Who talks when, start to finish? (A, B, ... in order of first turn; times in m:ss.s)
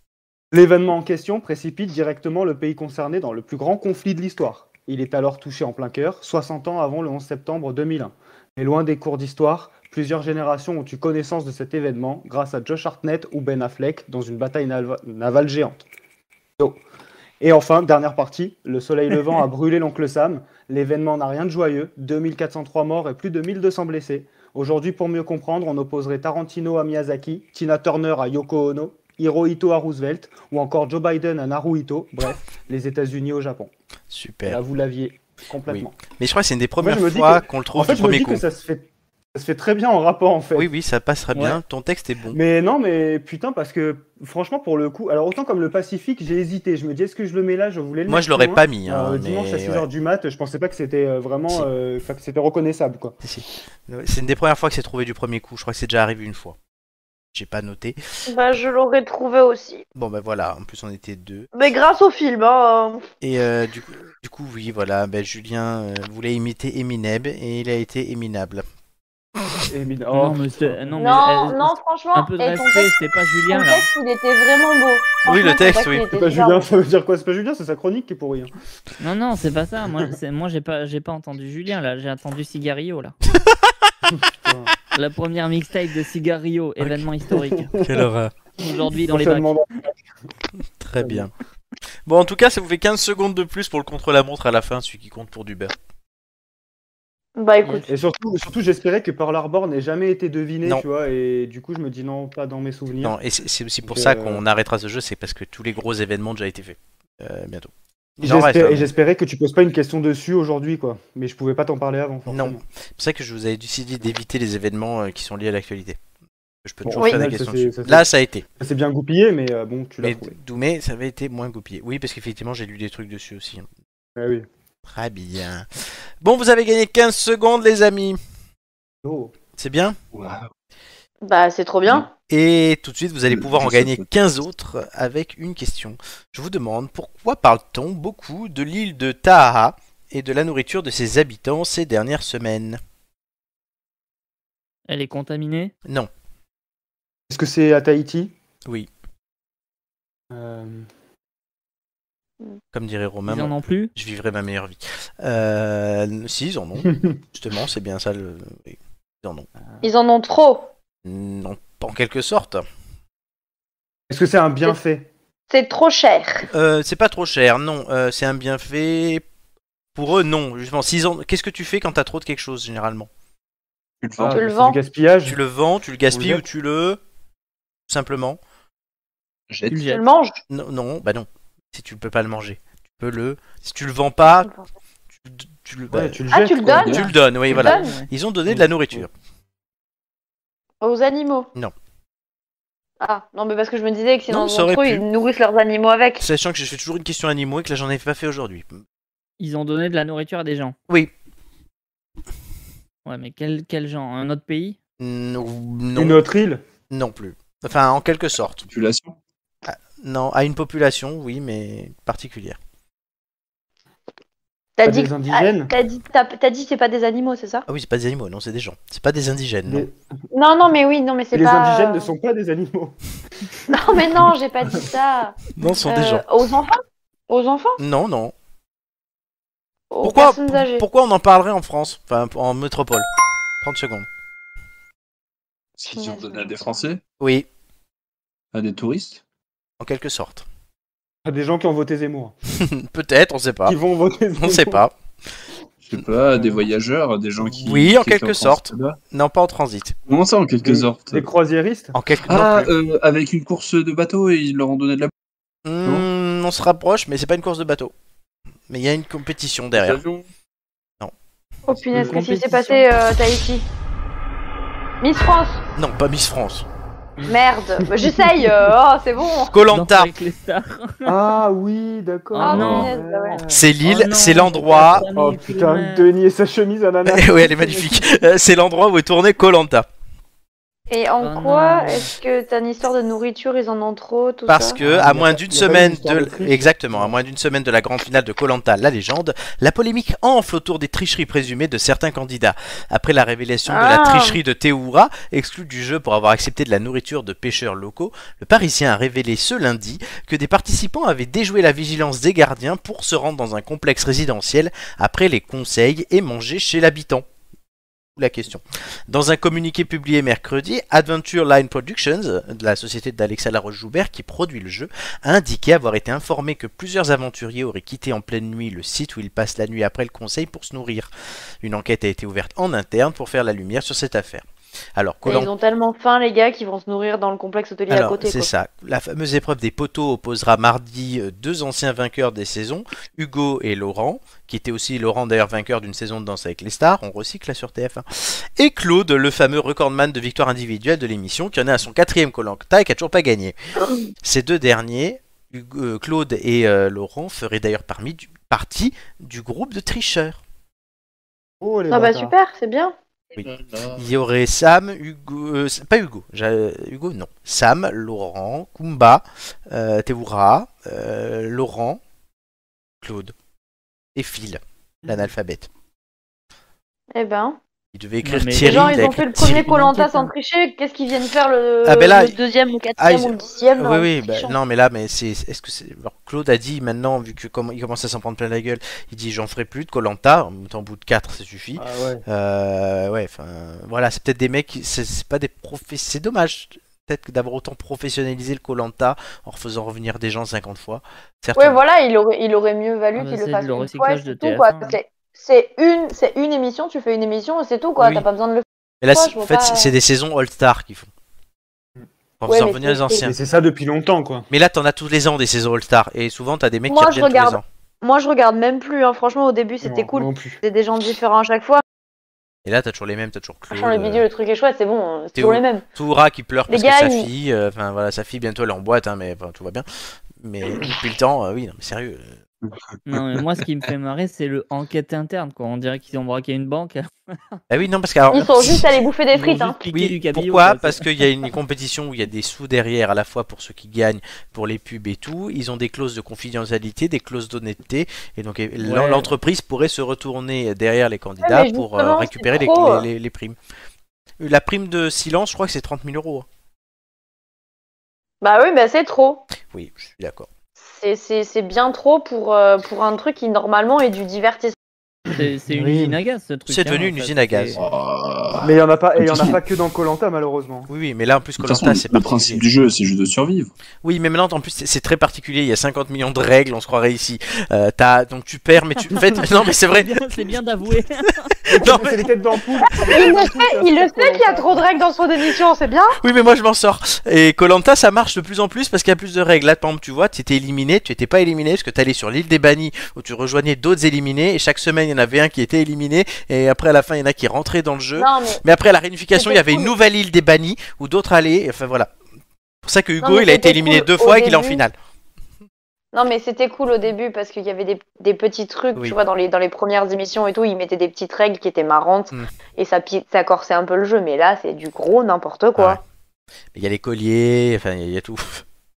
0:00.5-0:15.8 A
0:17.4-0:33.7 A
0:34.1-0:34.6 B
0:34.5-0:36.0 A
0:35.6-0:38.4 B
0:36.8-0:40.7 A
0:40.5-0:42.4 B
0:41.3-0:41.6 C
0:42.3-0:53.2 A
0:48.1-0:49.8 B
0:53.2-0:56.6 B
0:57.3-0:58.0 B
0:58.3-0:59.8 D
0:59.9-1:01.5 B
1:01.5-1:03.1 D
1:03.2-1:08.6 B
1:09.7-1:11.0 A
1:10.1-1:13.8 C
1:11.0-1:13.0 D
1:13.5-1:16.6 D
1:15.2-1:16.1 B
1:16.1-1:18.5 A
1:19.0-1:23.2 C
1:23.3-1:23.6 B
1:24.1-1:24.7 A
1:24.9-1:27.7 C
1:27.3-1:28.0 A
1:27.8-1:28.3 B
1:28.6-1:29.6 C
1:29.1-1:29.7 A
1:30.8-1:31.3 B
1:31.0-1:31.3 A
1:32.0-1:35.7 B
1:37.4-1:37.8 D
1:37.9-1:43.2 A
1:43.0-1:48.9 B
1:43.8-1:44.4 A
1:48.2-1:52.6 A
1:52.3-1:56.0 B
1:56.6-1:58.4 B
1:56.8-1:58.1 A
1:58.6-2:00.4 A
2:00.0-2:03.7 B
2:04.2-2:04.4 A
2:04.8-2:08.2 B
2:09.0-2:09.3 A
2:09.6-2:10.0 B
2:10.1-2:10.5 E
2:11.2-2:12.1 D
2:12.3-2:22.8 B
2:13.3-2:14.1 E
2:24.9-2:25.7 C
2:25.8-2:26.1 B
2:27.3-2:28.3 A
2:30.3-2:30.9 A
2:32.7-2:39.5 B
2:33.3-2:33.9 C
2:39.8-2:40.7 D
2:41.0-2:42.6 B
2:44.1-2:45.1 A
2:45.5-2:46.5 D
2:46.5-2:49.2 B
2:49.9-2:53.1 B
2:54.0-2:54.4 E
2:54.2-2:55.4 A
2:54.3-2:54.8 D
2:55.2-2:57.0 B
2:56.1-2:56.4 A
2:57.9-2:58.4 B
2:59.5-2:59.8 E
2:59.7-3:00.0 C
2:59.8-3:00.4 D
3:00.5-3:04.5 B
3:05.2-3:06.2 B
3:05.9-3:07.0 A
3:06.3-3:08.0 D
3:06.7-3:07.1 E
3:06.8-3:09.1 B
3:07.5-3:08.1 C
3:08.5-3:09.0 A
3:10.8-3:11.5 D
3:13.0-3:16.2 D
3:14.3-3:15.0 B
3:16.2-3:18.8 B
3:19.4-3:20.7 C
3:23.0-3:24.8 C
3:25.0-3:26.2 B
3:26.0-3:26.6 A
3:26.9-3:28.7 B
3:28.6-3:29.2 E
3:29.6-3:32.6 B
3:34.8-3:37.6 D
3:34.8-3:35.7 A
3:37.7-3:39.8 B
3:39.7-3:40.0 A
3:40.3-3:42.1 D
3:41.3-3:43.0 A
3:43.7-3:47.8 D
3:43.8-3:44.8 A
3:45.6-3:46.2 B
3:47.8-3:48.3 B
3:49.9-3:50.8 D
3:50.0-3:53.1 B
3:53.6-3:54.1 B
3:55.8-3:57.0 E
3:55.9-3:56.6 D
3:57.2-3:57.5 B
3:58.5-3:59.2 E
3:59.8-4:00.4 B
4:01.2-4:02.4 A
4:02.6-4:03.8 B
4:03.6-4:04.8 A
4:04.4-4:04.9 B
4:05.8-4:09.0 E
4:06.3-4:06.6 A
4:07.6-4:10.0 B
4:10.1-4:11.3 E
4:10.6-4:11.9 A
4:11.9-4:12.7 B
4:12.3-4:15.1 E
4:15.6-4:17.9 B
4:18.7-4:20.0 B
4:19.7-4:20.2 E
4:21.7-4:23.7 D
4:21.9-4:22.4 A
4:21.9-4:22.8 C
4:25.0-4:25.6 D
4:25.8-4:26.7 B
4:27.2-4:29.6 D
4:27.8-4:28.5 A
4:29.5-4:30.1 B
4:29.7-4:31.1 C
4:31.0-4:33.6 A
4:32.3-4:36.1 C
4:32.4-4:33.4 D
4:32.5-4:32.9 E
4:33.5-4:35.1 B
4:34.7-4:38.1 A
4:37.0-4:39.9 B
4:40.9-4:44.8 D
4:41.2-4:42.1 C
4:44.5-5:07.2 B
4:44.8-4:47.2 A
4:53.6-4:54.4 D
5:08.2-5:21.1 B
5:21.6-5:25.5 B
5:25.2-5:28.5 D
5:27.9-5:43.5 B
5:44.2-5:50.4 B
5:51.6-5:52.3 A
5:51.9-5:52.9 D
5:53.3-5:54.1 E
5:53.4-6:02.0 B
6:03.0-6:03.3 B
6:04.1-6:05.7 B
6:07.1-6:07.6 D
6:07.9-6:09.8 B
6:08.2-6:10.3 C
6:08.6-6:14.6 D
6:11.8-6:12.3 B
6:13.0-6:31.8 B
6:21.8-6:22.2 A
6:31.6-6:39.9 D
6:33.2-6:35.0 C
6:38.0-6:38.2 B
6:39.0-6:41.1 B
6:42.4-6:43.4 B
6:42.5-6:43.3 D
6:43.2-6:44.5 A
6:44.5-6:47.6 B
6:46.9-6:51.8 D
6:49.8-6:50.6 A
6:52.6-6:54.2 B
6:53.7-6:55.8 D
6:55.3-6:59.8 B
6:56.7-6:57.3 D
7:00.4-7:02.4 B
7:03.1-7:07.6 C
7:03.1-7:03.4 E
7:07.7-7:08.9 B
7:08.3-7:09.8 D
7:09.3-7:11.1 C
7:09.9-7:23.6 B
7:18.8-7:19.3 C
7:21.4-7:23.1 D
7:24.4-7:26.4 B
7:28.4-7:29.4 D
7:29.7-7:30.5 B
7:30.8-7:34.8 D
7:35.3-7:36.1 A
7:35.3-7:37.8 C
7:36.7-7:37.8 B
7:37.8-7:39.6 E
7:38.6-7:40.9 A
7:40.9-7:42.6 B
7:41.6-7:43.7 E
7:44.0-7:50.3 B
7:49.9-7:51.5 C
7:51.7-7:54.8 A
7:51.7-7:52.2 B
7:53.0-7:56.2 D
7:56.2-8:12.1 B
8:08.2-8:08.6 D
8:09.4-8:09.9 D
8:12.8-8:14.9 B
8:13.2-8:14.8 D
8:16.1-8:26.0 D
8:26.7-8:28.6 B